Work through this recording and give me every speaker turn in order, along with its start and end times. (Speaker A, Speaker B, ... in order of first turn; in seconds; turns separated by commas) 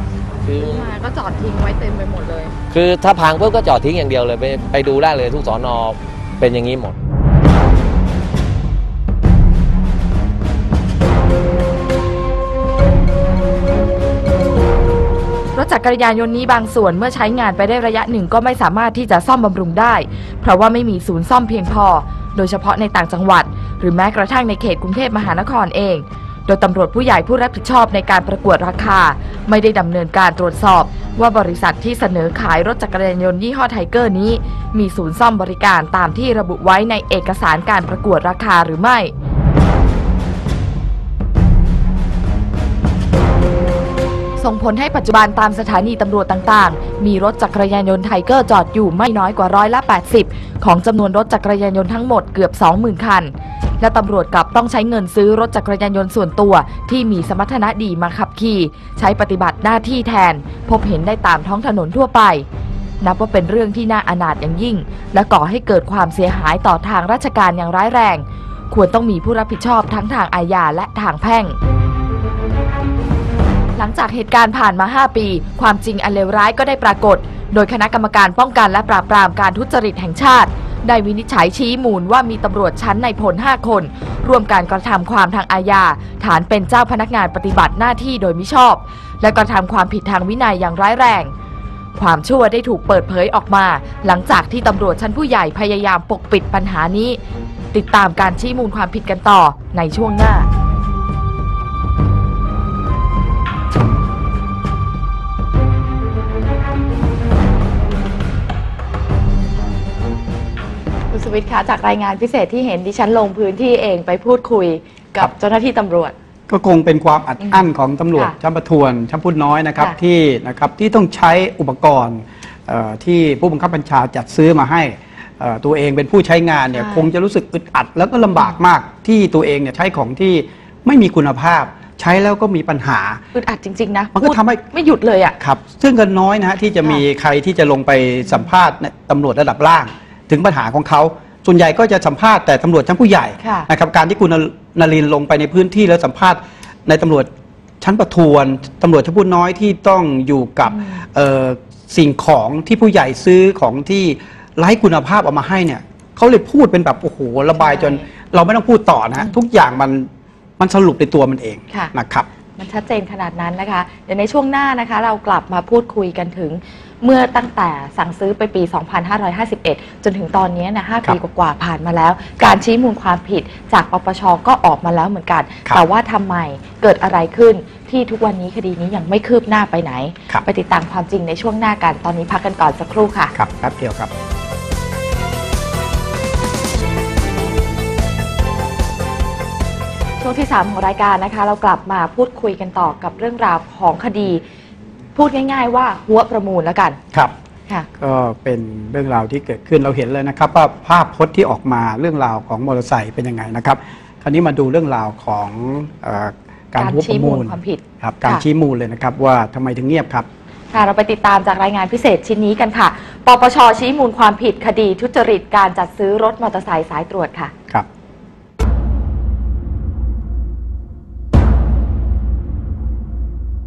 Speaker A: 0.5-0.9, Speaker B: 0.6-2.5, Speaker A: 2.7-7.0, Speaker B: 15.6-39.1, Speaker B: 44.4-62.5, Speaker B: 63.0-71.6, Speaker B: 73.8-91.3, Speaker B: 92.0-97.2, Speaker B: 97.7-100.5, Speaker B: 111.1-116.2, Speaker C: 116.5-133.2, Speaker B: 117.4-118.3, Speaker B: 126.7-127.1, Speaker B: 133.3-135.4, Speaker C: 134.2-134.6, Speaker C: 135.4-147.3, Speaker B: 143.4-143.7, Speaker C: 147.8-160.1, Speaker B: 150.7-151.0, Speaker B: 157.6-158.1, Speaker C: 160.6-162.3, Speaker B: 162.6-183.3, Speaker C: 183.3-184.1, Speaker B: 190.2-194.4, Speaker B: 195.2-197.0, Speaker C: 198.0-210.3, Speaker B: 206.8-208.4, Speaker B: 210.7-217.5